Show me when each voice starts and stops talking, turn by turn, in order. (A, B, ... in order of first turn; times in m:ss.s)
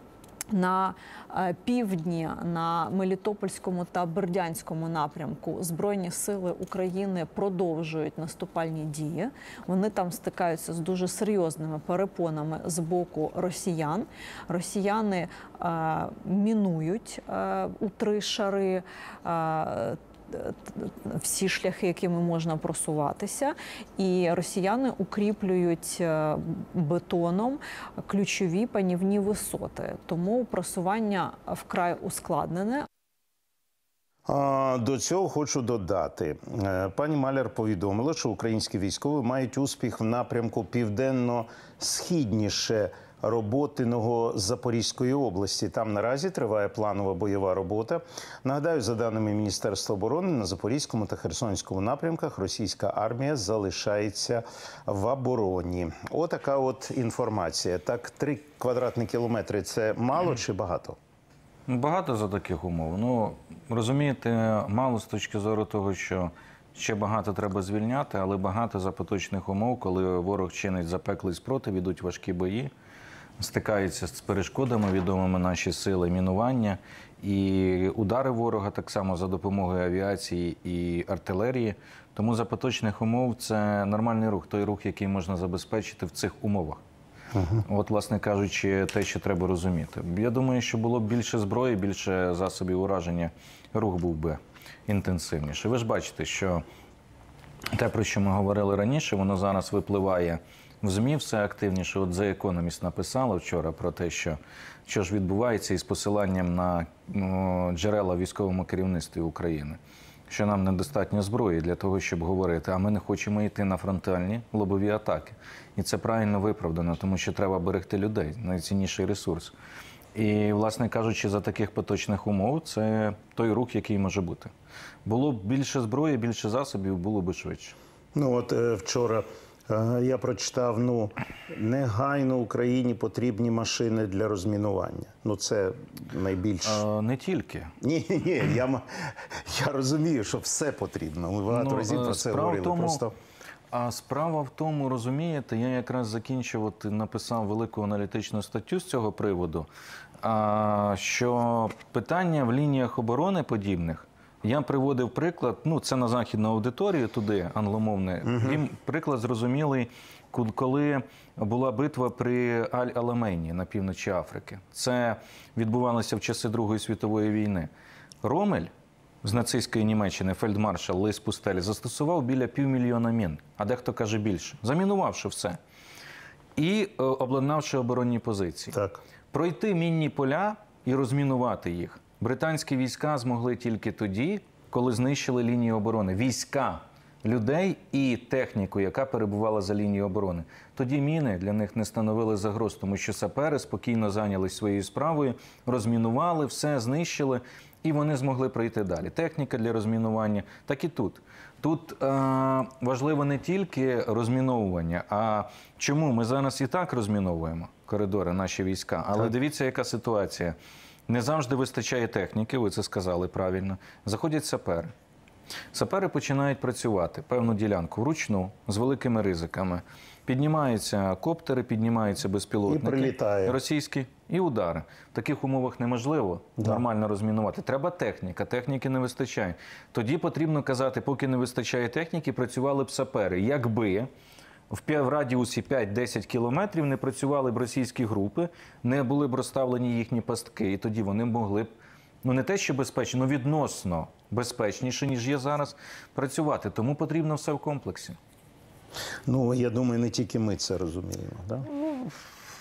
0:00.5-0:32.8 A
0:34.2-1:01.0 B
1:01.7-1:12.7 C
1:13.4-1:26.8 C
1:27.3-1:27.6 B
1:27.7-1:36.6 C
1:37.7-1:59.5 C
2:00.1-2:04.5 C
2:05.0-2:07.8 C
2:08.1-2:16.8 B
2:16.6-2:17.7 C
2:17.8-2:23.1 B
2:21.5-2:23.0 C
2:23.7-2:29.7 C
2:30.2-2:47.7 C
2:38.2-2:38.6 B
2:48.2-2:48.7 C
2:49.2-2:55.6 C
2:56.6-2:58.8 C
2:58.7-2:59.0 B
2:59.3-3:30.6 C
3:31.1-3:34.9 C
3:35.7-3:54.1 C
3:42.6-3:43.6 B
3:46.6-3:46.8 B
3:54.7-4:08.2 C
4:09.3-4:11.7 B